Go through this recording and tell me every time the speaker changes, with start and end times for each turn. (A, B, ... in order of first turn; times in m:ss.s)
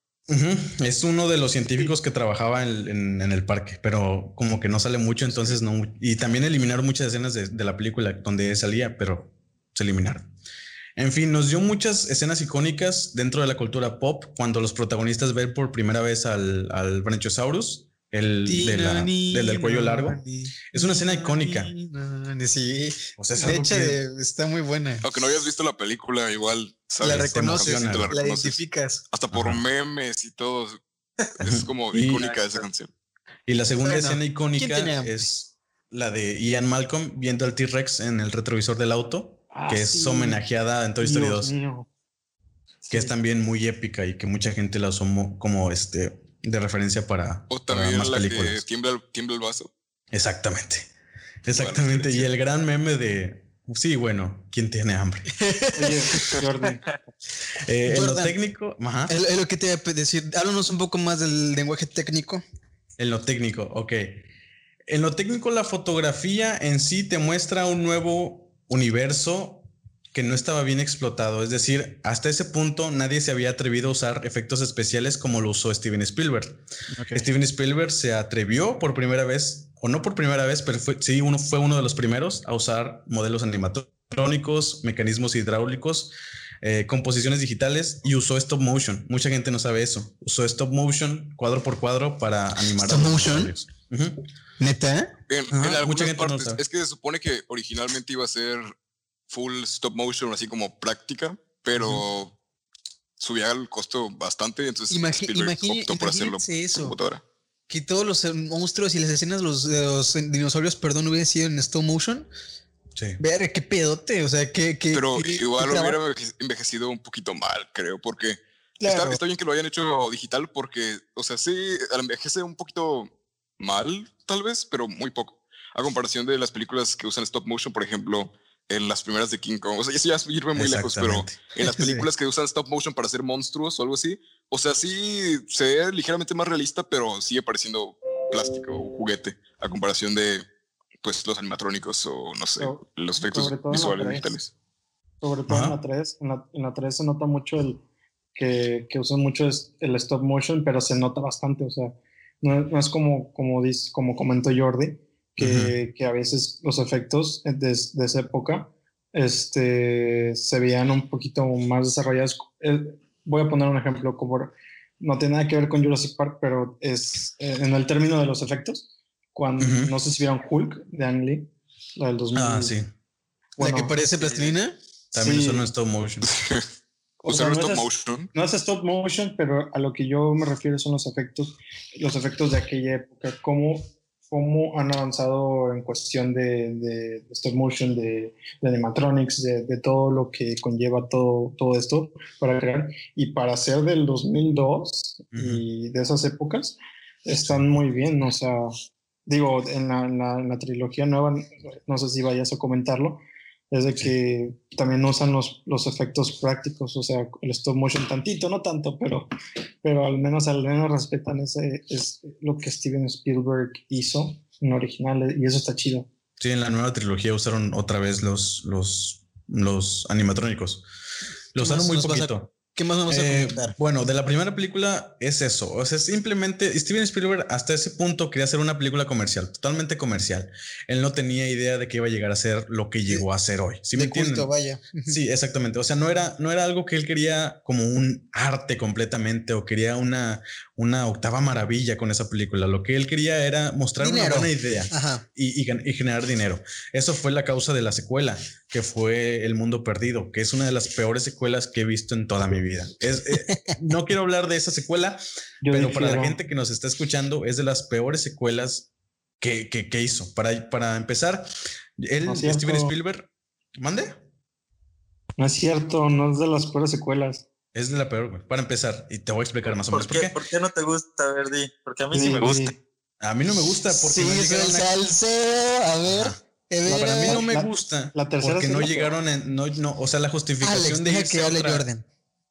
0:00.3-0:10.3 A
0:11.0-0:21.7 A
0:18.4-0:25.0 B
0:23.2-0:24.0 A
0:25.0-0:30.8 C
0:27.0-0:29.0 B
0:27.0-0:28.1 A
0:29.3-0:29.6 A
0:31.4-0:32.9 C
0:31.4-0:32.3 A
0:33.5-0:41.5 A
0:33.8-0:35.1 B
0:39.5-0:40.4 D
0:41.0-0:41.9 D
0:42.9-0:43.1 D
0:42.9-0:48.6 A
0:47.5-0:49.7 C
0:50.1-0:50.9 A
0:51.4-0:55.3 A
0:51.5-0:52.3 C
0:55.4-0:56.3 B
0:55.8-0:57.0 D
0:57.6-0:59.1 A
0:57.8-0:58.4 B
0:59.1-1:02.4 B
1:03.0-1:04.2 A
1:04.9-1:16.6 A
1:16.9-1:17.3 B
1:17.1-1:34.2 A
1:32.8-1:33.5 B
1:34.6-1:35.1 B
1:35.3-1:38.7 C
1:35.5-1:36.6 A
1:39.3-1:42.3 C
1:43.2-1:47.2 C
1:44.9-1:47.0 B
1:47.7-1:52.3 B
1:53.2-1:56.0 B
1:54.9-2:20.4 C
1:58.8-1:59.2 B
2:10.5-2:11.4 A
2:11.6-2:12.0 B
2:21.0-2:24.5 C
2:22.6-2:24.3 D
2:25.2-2:27.8 D
2:25.5-2:25.8 A
2:28.3-2:52.8 D
2:35.4-2:35.7 A
2:49.6-2:49.9 A
2:52.3-2:52.9 A
2:53.6-2:53.9 D
2:53.6-2:54.8 B
2:54.2-2:54.5 E
2:55.1-2:56.3 A
2:55.2-2:55.7 D
2:56.2-2:56.6 C
2:57.2-3:18.7 D
2:57.3-2:58.3 C
3:15.3-3:15.6 A
3:19.2-3:29.3 D
3:29.8-3:36.1 D
3:36.4-3:40.8 A
3:41.5-3:42.5 A
3:41.6-3:43.8 B
3:43.1-3:54.5 A
3:53.9-3:55.2 B
3:55.1-4:18.9 A
4:04.0-4:05.2 B
4:13.4-4:13.8 B
4:15.6-4:16.4 D
4:19.4-4:24.2 A
4:22.2-4:22.9 D
4:25.4-4:27.4 D
4:27.7-4:30.4 A
4:29.9-4:32.8 E
4:32.1-4:32.7 D
4:33.2-4:35.0 A
4:33.9-4:37.4 B
4:36.0-4:41.8 A
4:36.9-4:39.2 D
4:40.6-4:42.0 B